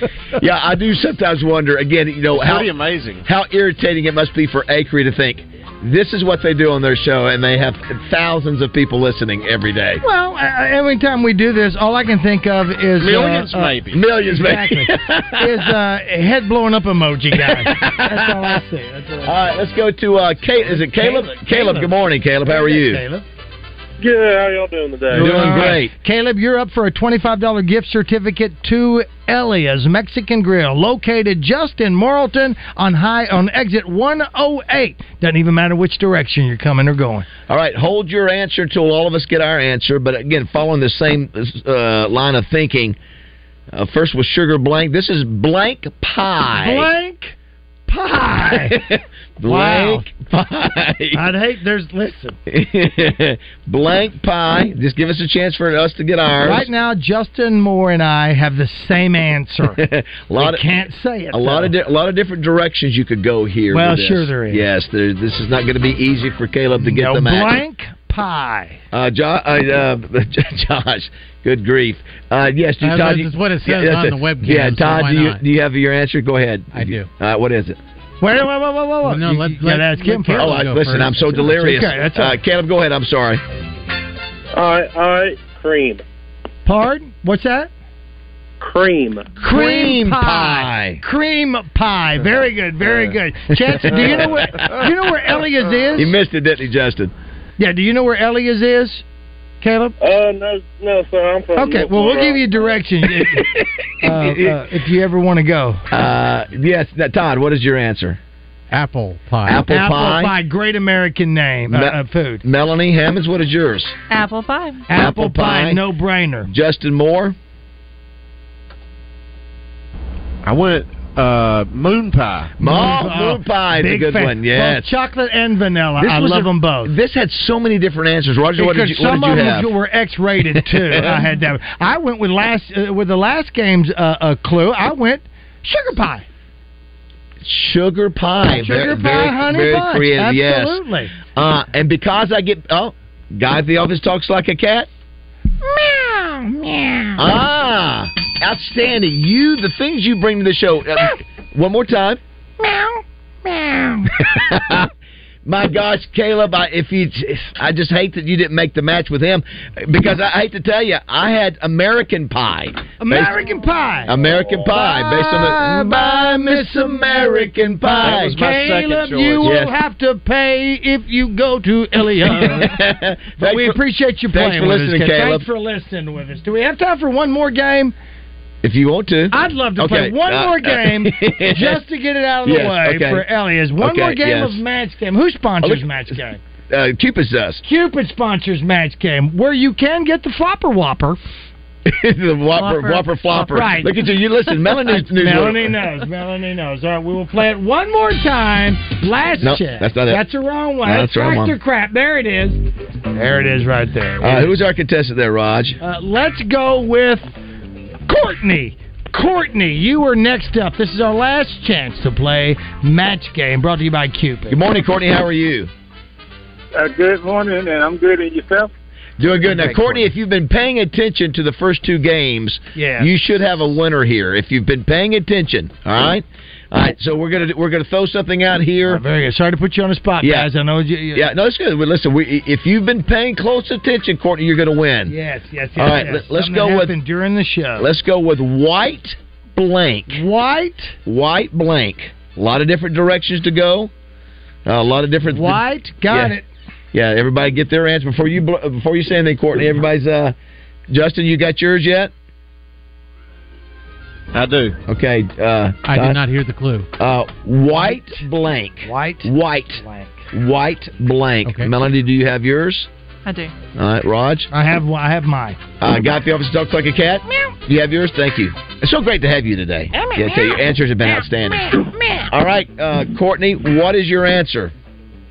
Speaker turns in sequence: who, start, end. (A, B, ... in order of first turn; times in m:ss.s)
0:00.4-0:02.7 A
0:02.3-0:03.2 B
0:03.2-0:10.0 A
0:10.0-0:19.4 C
0:13.0-0:14.0 B
0:13.9-0:15.7 A
0:17.3-0:18.6 A
0:19.2-0:23.0 A
0:20.6-0:23.2 C
0:24.0-0:25.5 D
0:25.1-0:37.3 C
0:25.2-0:25.9 A
0:37.5-0:43.0 A
0:43.7-0:46.9 A
0:46.5-0:47.3 C
0:47.9-0:48.8 C
0:48.5-0:51.3 A
0:49.4-0:50.1 C
0:51.1-0:52.4 C
0:52.5-0:56.7 A
0:56.4-0:59.8 C
0:59.7-1:00.6 A
1:00.4-1:01.7 C
1:01.3-1:07.6 A
1:03.7-1:04.6 C
1:06.8-1:08.8 C
1:08.9-1:17.8 A
1:12.8-1:15.4 E
1:16.7-1:17.1 E
1:18.2-1:20.6 C
1:19.0-1:21.6 E
1:20.4-1:23.4 A
1:21.4-1:22.4 C
1:24.5-1:26.0 D
1:26.6-1:27.7 C
1:28.6-1:29.3 D
1:29.4-1:36.1 C
1:29.4-1:31.0 A
1:33.8-1:34.8 A
1:35.9-1:37.1 A
1:37.6-1:39.0 C
1:39.6-1:39.9 C
1:40.0-1:42.7 D
1:41.6-1:43.5 C
1:43.2-1:44.7 A
1:44.0-1:45.8 C
1:45.9-1:48.2 A
1:48.7-1:49.6 E
1:49.4-1:50.3 A
1:49.6-1:52.4 C
1:51.7-1:53.9 A
1:54.1-1:54.8 F
1:54.9-1:56.5 C
1:54.9-1:55.8 A
1:56.5-1:57.3 A
2:00.4-2:02.5 B
2:02.6-2:04.9 A
2:02.6-2:06.9 C
2:06.0-2:09.7 A
2:08.6-2:16.2 C
2:10.6-2:11.3 A
2:17.4-2:24.9 A
2:18.5-2:21.1 C
2:25.6-2:27.2 C
2:27.2-2:32.2 A
2:32.6-2:34.1 C
2:34.2-2:34.9 A
2:35.4-2:43.4 A
2:43.0-2:52.8 C
2:44.0-2:48.4 A
2:47.9-2:49.6 B
2:49.4-2:49.8 A
2:52.3-2:53.8 A
2:53.4-2:57.9 C
2:54.3-2:55.4 A
2:58.6-3:01.8 A
2:59.3-3:06.4 C
3:02.4-3:03.2 A
3:03.8-3:04.6 A
3:05.6-3:05.9 A
3:06.7-3:07.6 A
3:07.6-3:11.2 C
3:11.8-3:15.8 A
3:12.5-3:13.7 F
3:13.4-3:14.0 C
3:14.8-3:24.5 C
3:19.4-3:20.2 A
3:20.8-3:21.5 A
3:24.2-3:25.8 A
3:25.8-3:27.3 C
3:28.1-3:34.6 C
3:34.5-3:35.7 A
3:36.7-3:38.7 D
3:39.2-3:49.0 A
3:39.2-3:40.1 C
3:42.7-3:43.2 C
3:48.8-3:51.3 C
3:50.2-3:50.5 A
3:51.1-3:55.1 A
3:55.1-3:57.9 C
3:55.8-3:56.9 A
3:57.8-4:00.2 A
4:00.1-4:01.0 C
4:01.0-4:03.9 A
4:04.6-4:06.3 A
4:05.3-4:06.4 C
4:06.9-4:10.3 A
4:10.9-4:12.1 A
4:14.3-4:14.8 B
4:14.9-4:16.2 A
4:15.9-4:16.9 E
4:17.0-4:22.9 A
4:17.8-4:18.1 C
4:18.8-4:20.2 C
4:21.4-4:21.7 E
4:23.2-4:23.5 F
4:23.8-4:24.5 A
4:24.5-4:25.6 C
4:25.8-4:31.8 A
4:30.0-4:30.5 C
4:32.3-4:34.7 A